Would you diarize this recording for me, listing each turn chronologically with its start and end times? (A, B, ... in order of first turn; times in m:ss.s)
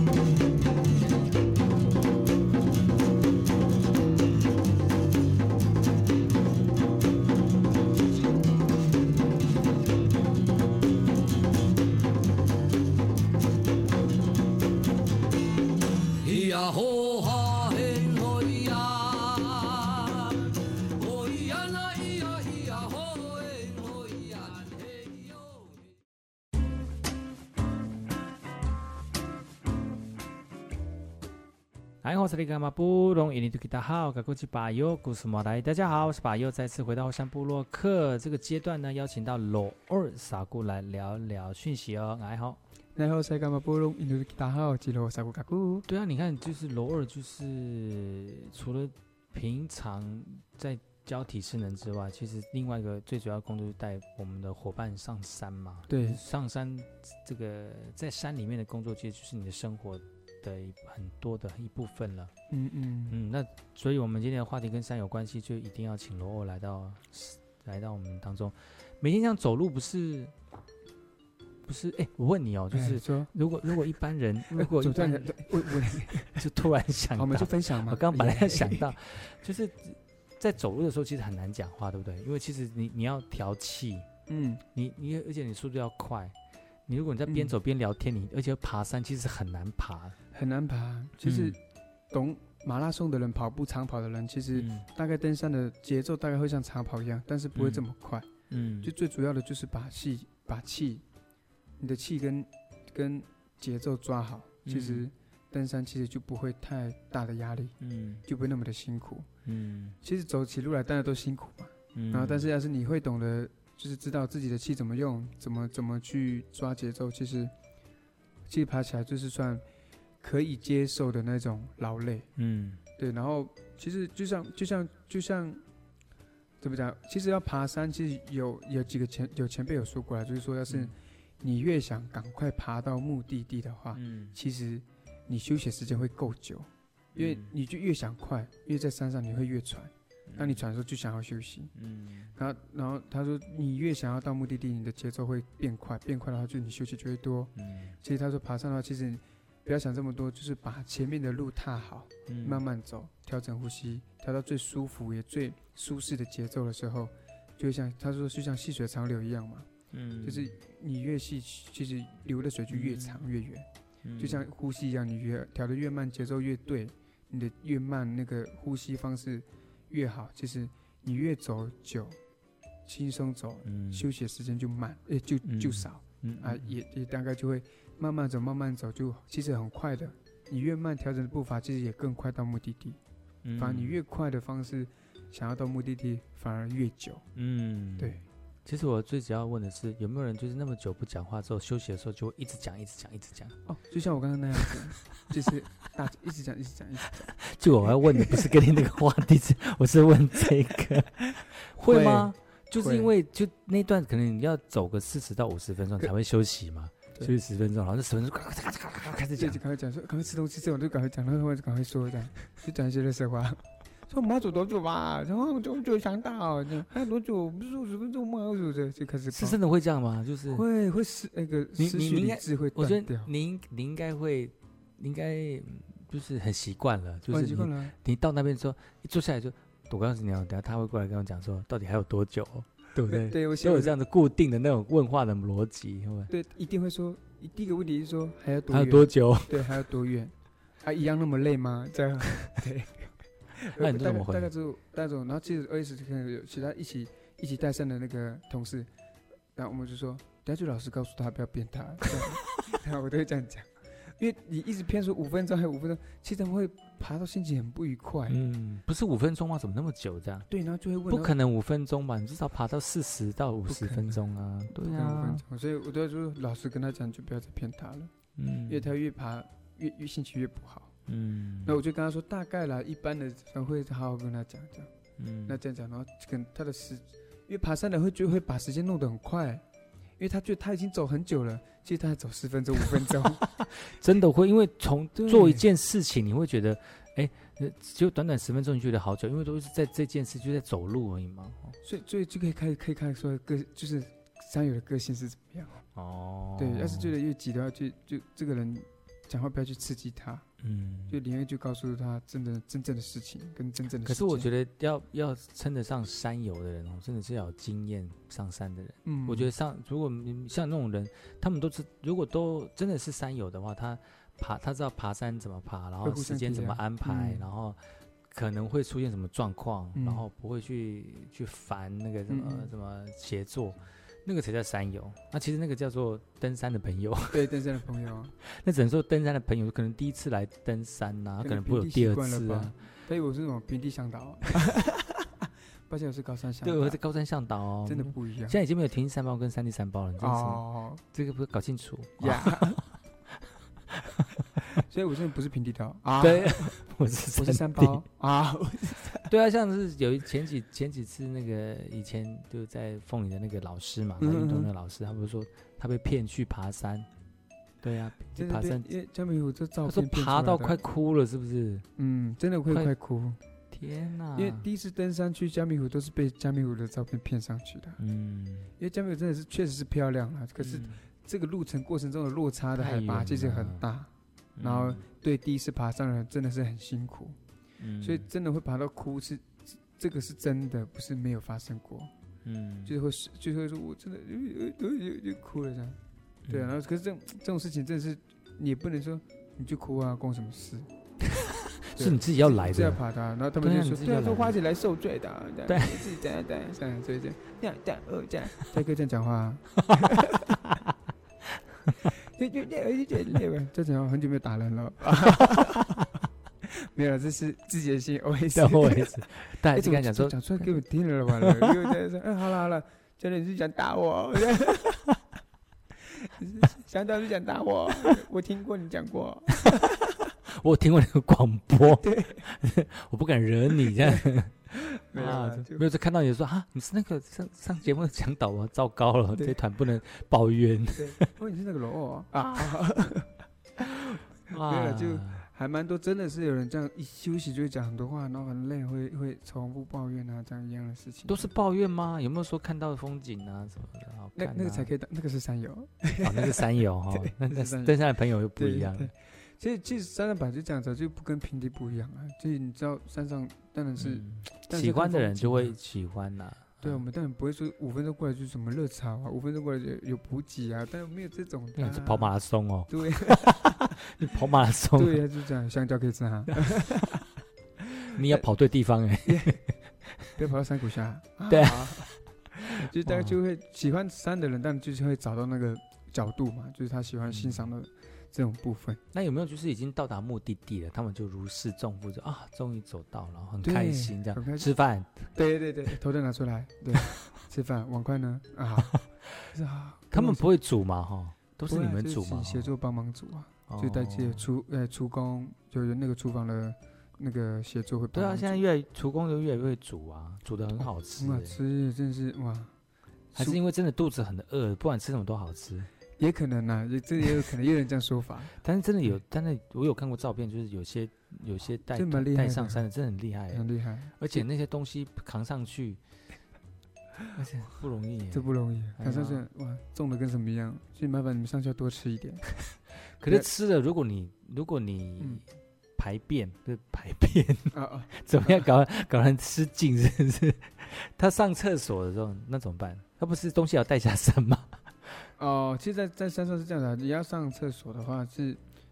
0:16.2-0:25.9 A
0:32.0-0:42.6 B
0:43.0-0:45.9 C
0:45.9-1:02.3 B
0:55.9-0:56.2 C
1:02.5-1:03.2 C
1:03.1-1:10.3 B
1:11.6-1:24.1 B
1:12.7-1:13.3 C
1:14.5-1:16.4 C
1:17.2-1:18.9 C
1:24.3-1:24.6 C
1:24.7-1:26.4 B
1:26.9-1:30.2 B
1:27.3-1:27.6 C
1:30.3-1:31.6 C
1:31.2-1:31.6 B
1:32.1-1:38.3 C
1:34.5-1:34.9 B
1:37.6-1:37.9 B
1:38.5-1:38.9 B
1:38.8-1:41.0 C
1:41.8-1:49.3 C
1:44.6-1:45.1 B
1:47.8-1:48.2 B
1:49.4-1:50.0 B
1:50.0-1:57.5 C
1:51.9-1:52.5 B
1:58.5-1:59.6 C
2:00.2-2:02.3 C
2:02.4-2:02.8 B
2:03.0-2:05.6 C
2:06.6-2:21.7 C
2:10.7-2:10.9 B
2:13.9-2:14.4 B
2:17.2-2:17.5 B
2:20.3-2:20.6 B
2:21.8-2:22.3 B
2:22.4-2:39.7 C
2:27.6-2:28.0 B
2:32.3-2:32.6 B
2:39.9-2:40.5 B
2:40.2-2:52.2 C
2:42.7-2:43.3 B
2:44.0-2:44.5 B
2:52.9-3:03.0 C
2:53.7-2:54.1 B
2:55.4-2:56.8 B
3:03.4-3:04.0 B
3:03.6-3:07.2 C
3:07.4-3:13.6 B
3:13.7-3:18.5 C
3:17.2-3:29.6 B
3:21.3-3:23.1 C
3:29.4-3:39.6 C
3:39.3-3:40.6 B
3:40.5-3:43.3 C
3:41.8-3:56.3 B
3:47.3-3:47.9 C
3:53.0-3:54.0 C
3:56.3-4:08.9 C
3:58.7-3:59.8 B
4:03.8-4:04.5 B
4:09.6-4:18.4 C
4:18.3-4:20.5 B
4:20.5-4:21.4 C
4:21.1-4:25.4 B
4:23.7-4:28.1 C
4:28.4-4:28.9 B
4:28.7-4:30.9 C
4:31.1-4:31.8 B
4:31.6-4:34.9 C
4:35.2-4:35.6 B
4:35.5-4:39.6 C
4:40.2-4:43.5 C
4:43.6-4:51.8 B
4:45.2-4:45.7 C
4:51.8-4:55.8 C
4:56.0-4:57.2 B
4:56.6-5:00.4 C
5:00.6-5:01.2 B
5:01.1-5:04.5 C
5:04.0-5:27.6 B
5:09.0-5:09.5 C
5:16.0-5:17.4 C
5:20.0-5:20.2 C
5:22.3-5:22.7 C
5:27.3-5:28.3 C
5:28.4-5:32.8 B
5:31.4-5:35.3 C
5:35.9-5:37.0 C
5:36.6-5:44.6 B
5:37.8-5:38.6 C
5:40.2-5:41.0 C
5:42.2-5:42.8 C
5:44.6-5:46.8 C
5:46.2-5:48.0 B
5:47.3-5:49.3 C
5:49.3-5:57.1 B
5:54.2-5:54.7 C
5:57.8-5:58.9 B
5:58.4-6:00.8 C
5:59.9-6:01.9 B
6:02.0-6:03.4 C
6:03.7-6:04.7 B
6:04.3-6:08.0 C
6:08.0-6:08.7 B
6:08.8-6:17.4 C
6:10.6-6:11.0 B
6:12.8-6:13.8 B
6:14.6-6:15.0 B
6:17.8-6:18.3 B
6:18.0-6:22.1 C
6:22.4-6:23.0 B
6:22.9-6:30.9 C
6:26.5-6:26.8 B
6:31.2-6:33.0 B
6:32.0-6:40.6 C
6:33.6-6:34.6 B
6:35.7-6:36.2 B
6:39.8-6:40.9 B
6:41.5-6:42.1 B
6:42.1-6:46.1 C
6:45.3-6:46.1 B
6:46.6-6:55.1 C
6:48.5-6:50.8 B
6:51.4-6:52.0 B
6:56.2-7:00.1 C
6:59.6-7:11.3 B
7:01.8-7:02.5 C
7:03.9-7:05.8 C
7:11.0-7:13.4 C
7:13.8-7:15.5 B
7:14.4-7:21.5 C
7:21.3-7:24.9 B
7:24.4-7:28.0 C
7:26.2-7:29.1 B
7:28.6-7:35.8 C
7:34.0-7:37.0 B
7:36.8-7:42.3 C
7:41.8-7:45.2 B
7:42.9-7:44.1 C
7:45.0-7:47.2 C
7:46.6-7:47.0 B
7:47.8-7:48.4 C
7:48.1-7:50.3 B
7:49.2-7:49.6 C
7:50.3-7:59.0 C
7:51.5-7:52.2 B
7:52.9-7:53.4 B
7:57.2-7:57.7 B
7:59.1-8:05.3 B
8:03.6-8:04.7 C
8:05.4-8:10.5 C
8:10.1-8:12.7 B
8:11.7-8:18.6 C
8:13.7-8:14.5 B
8:18.1-8:21.6 B
8:20.8-8:22.7 C
8:23.4-8:23.6 C
8:23.4-8:25.9 B
8:26.2-8:28.6 C
8:28.6-8:33.6 B
8:31.9-8:32.8 C
8:33.5-8:34.2 C
8:34.2-8:36.0 B
8:37.3-8:39.4 B
8:38.3-8:42.5 C
8:43.2-8:45.4 B
8:46.0-8:55.3 B
8:47.7-8:48.7 C
8:55.4-8:58.6 C